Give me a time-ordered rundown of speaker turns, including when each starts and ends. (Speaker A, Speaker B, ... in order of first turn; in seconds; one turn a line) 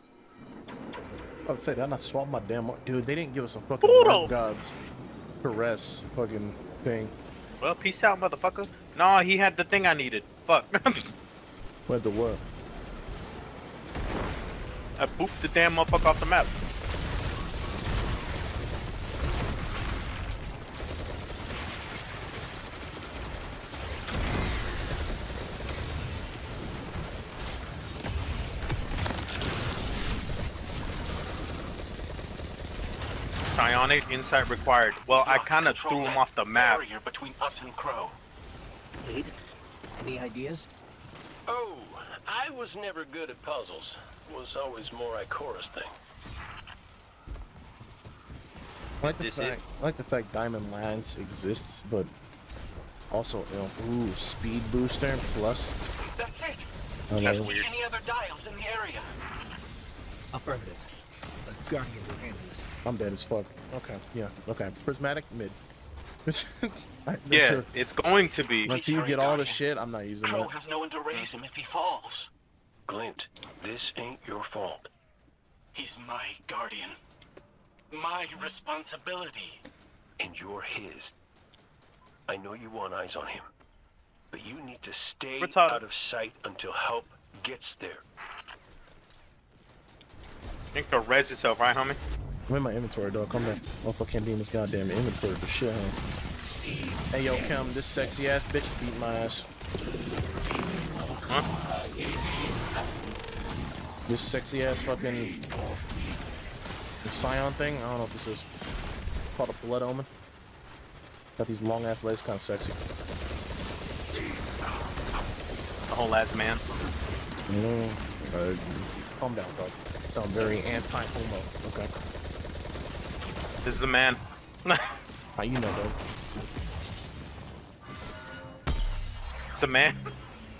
Speaker A: 1.4-4.8
Speaker B: 3.8-4.3
Speaker A: 5.4-7.1
Speaker B: 7.6-11.1
Speaker A: 11.9-12.4
Speaker B: 15.0-16.5
Speaker B: 33.5-36.8
Speaker C: 35.1-38.2
Speaker D: 39.0-39.4
Speaker D: 40.0-40.7
Speaker E: 41.5-45.9
Speaker B: 49.0-49.6
Speaker A: 49.0-52.1
Speaker A: 53.1-55.7
Speaker C: 56.2-59.1
Speaker A: 57.1-57.5
Speaker B: 57.2-57.7
Speaker D: 60.3-60.9
Speaker D: 61.4-62.6
Speaker A: 62.8-65.6
Speaker A: 66.2-67.7
Speaker B: 67.3-68.7
Speaker A: 68.6-70.5
Speaker C: 68.7-69.6
Speaker C: 70.2-72.3
Speaker E: 72.9-74.9
Speaker C: 75.7-77.0
Speaker C: 77.9-79.6
Speaker E: 80.2-81.1
Speaker E: 82.3-83.5
Speaker E: 84.3-88.0
Speaker B: 85.4-85.8
Speaker B: 90.7-92.0
Speaker A: 92.5-96.0
Speaker A: 97.1-99.5
Speaker A: 104.1-105.3
Speaker A: 107.0-108.5
Speaker A: 109.3-110.1
Speaker A: 111.4-112.8
Speaker B: 115.9-116.6
Speaker A: 117.5-121.9
Speaker B: 123.6-124.9
Speaker A: 125.3-126.0
Speaker B: 129.5-130.0